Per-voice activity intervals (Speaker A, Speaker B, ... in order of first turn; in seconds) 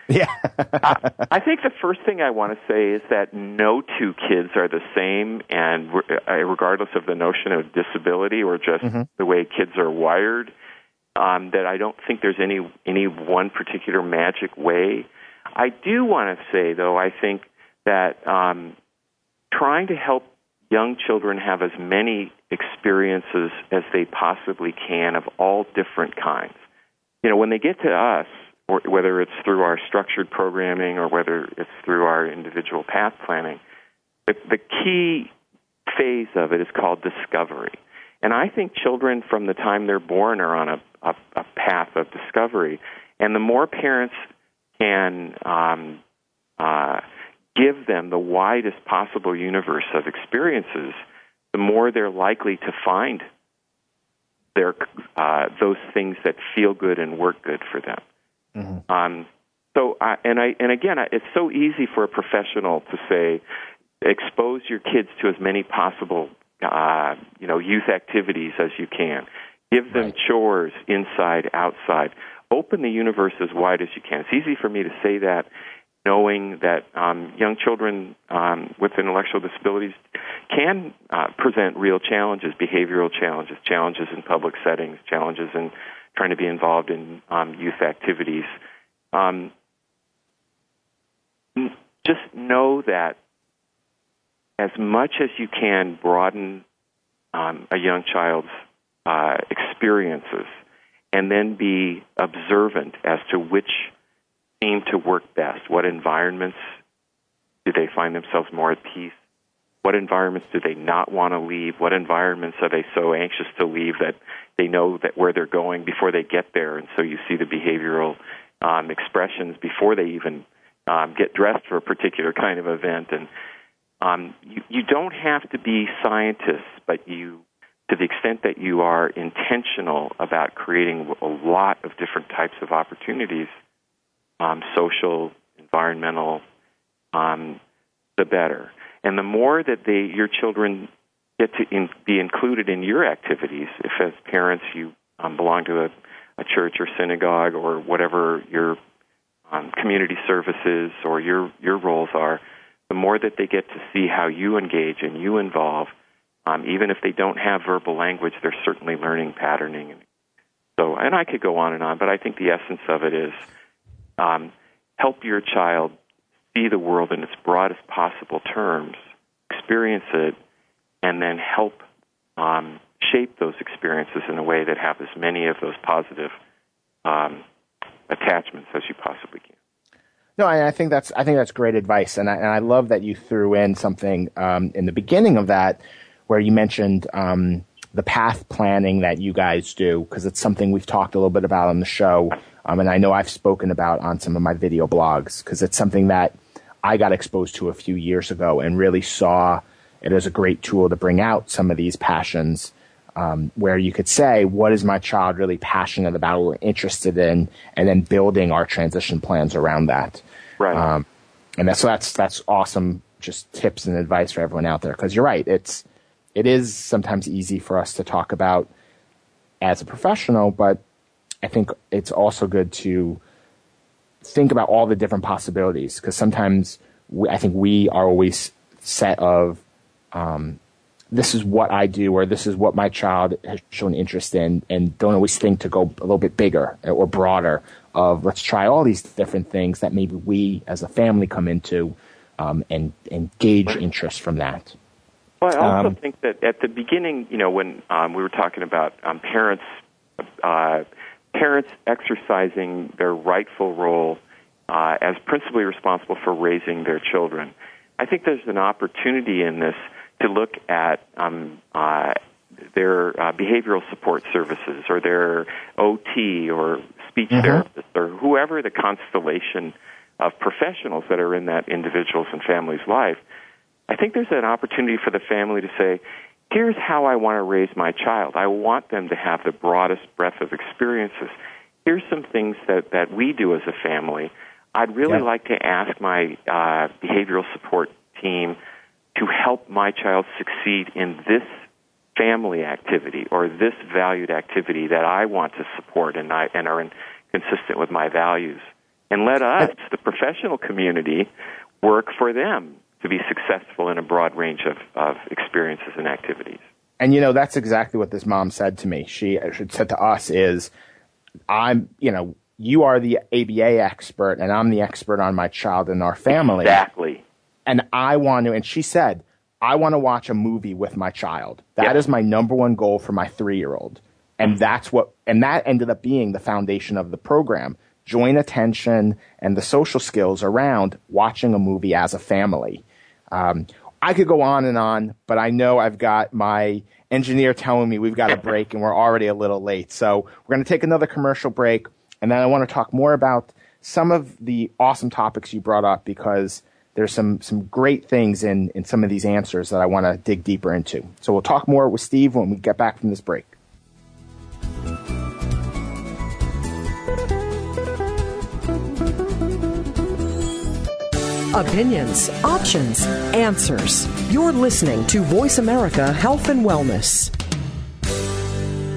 Speaker A: 0.1-1.2, 58.5-58.8, 180.4-211.0, 211.6-218.7, 219.6-220.8, 221.4-223.2, 224.2-229.6, 230.1-230.6, 231.1-244.7, 245.6-245.9, 267.3-267.6, 307.0-310.7, 311.5-316.8, 317.6-353.5
Speaker B: 0.8-10.5, 11.2-18.7, 19.5-26.6, 27.2-33.6, 34.3-35.3, 35.9-44.2, 44.8-46.0, 46.6-47.0, 47.5-51.0, 51.5-53.3, 54.5-58.0, 58.9-63.4, 64.0-75.5, 76.0-88.5, 89.1-89.5, 91.5-93.2, 94.6-96.6, 97.3-98.5, 99.0-100.6, 101.1-103.9, 104.6-106.6, 107.7-109.2, 109.8-123.3, 124.0-133.5, 134.4-136.4, 137.1-137.6, 138.2-148.8, 149.5-155.9, 156.4-160.0, 160.8-163.4, 164.2-165.9, 166.5-169.0, 169.5-170.3, 171.0-171.8, 172.4-176.3, 177.0-177.4, 178.1-179.5, 210.6-210.9, 245.4-254.2, 254.7-262.2, 262.7-273.2, 273.9-288.6, 289.1-291.6, 292.1-301.3, 301.8-306.6, 316.6-317.2
Speaker C: 361.5-367.3